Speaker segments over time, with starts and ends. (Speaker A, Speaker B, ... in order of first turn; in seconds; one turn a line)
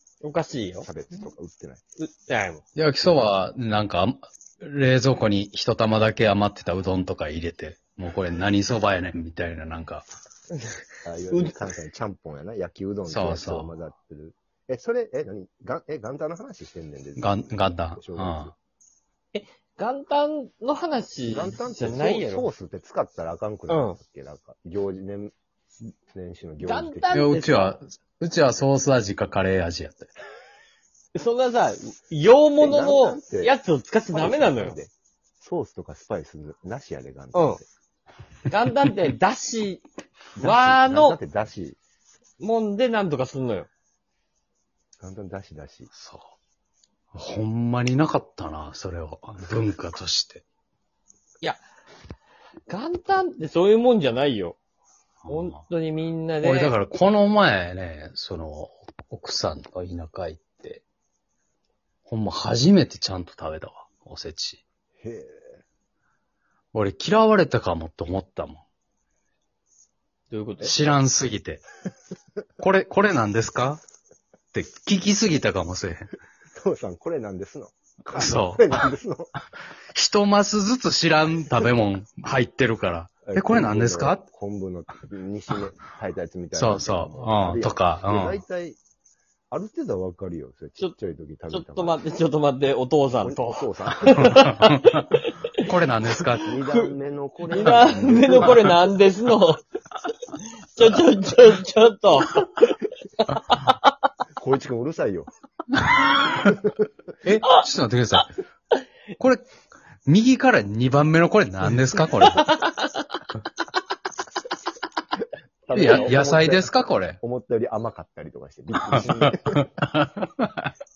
Speaker A: 0.2-0.9
Speaker B: 0.8-1.8
Speaker A: 2.0-2.6
Speaker C: 2.8-10.0
Speaker A: 10.5-11.6
Speaker B: 11.0-18.5
Speaker C: 13.0-13.7
Speaker C: 17.2-18.5
Speaker A: 19.3-22.5
Speaker B: 21.3-25.3
Speaker A: 23.7-24.0
Speaker B: 26.1-27.3
Speaker A: 26.6-27.8
Speaker C: 27.1-30.1
Speaker A: 31.1-34.8
Speaker B: 32.6-33.6
Speaker B: 34.1-37.6
Speaker A: 37.3-37.6
Speaker A: 38.5-39.8
Speaker B: 40.4-41.8
Speaker A: 40.4-41.2
Speaker A: 42.4-43.7
Speaker B: 45.0-45.9
Speaker C: 45.9-46.3
Speaker C: 47.1-50.4
Speaker A: 52.7-54.6
Speaker C: 55.2-55.6
Speaker A: 55.3-56.7
Speaker C: 56.4-60.8
Speaker C: 62.1-64.6
Speaker B: 65.0-65.6
Speaker C: 66.7-68.6
Speaker A: 70.3-70.9
Speaker C: 70.6-71.6
Speaker C: 72.6-73.8
Speaker C: 74.5-76.1
Speaker B: 76.5-79.3
Speaker C: 78.1-78.9
Speaker C: 79.9-84.2
Speaker B: 83.2-88.8
Speaker C: 86.5-88.4
Speaker B: 89.5-92.0
Speaker A: 91.5-95.6
Speaker B: 93.2-94.4
Speaker C: 94.2-95.1
Speaker C: 95.6-96.5
Speaker B: 96.4-98.9
Speaker A: 97.5-99.6
Speaker C: 97.6-98.7
Speaker A: 100.8-103.9
Speaker B: 104.4-105.3
Speaker C: 105.8-106.6
Speaker C: 107.2-108.3
Speaker C: 109.2-109.5
Speaker C: 110.0-112.5
Speaker A: 112.1-113.1
Speaker B: 115.7-119.6
Speaker A: 115.7-116.1
Speaker C: 115.7-117.2
Speaker C: 118.8-120.7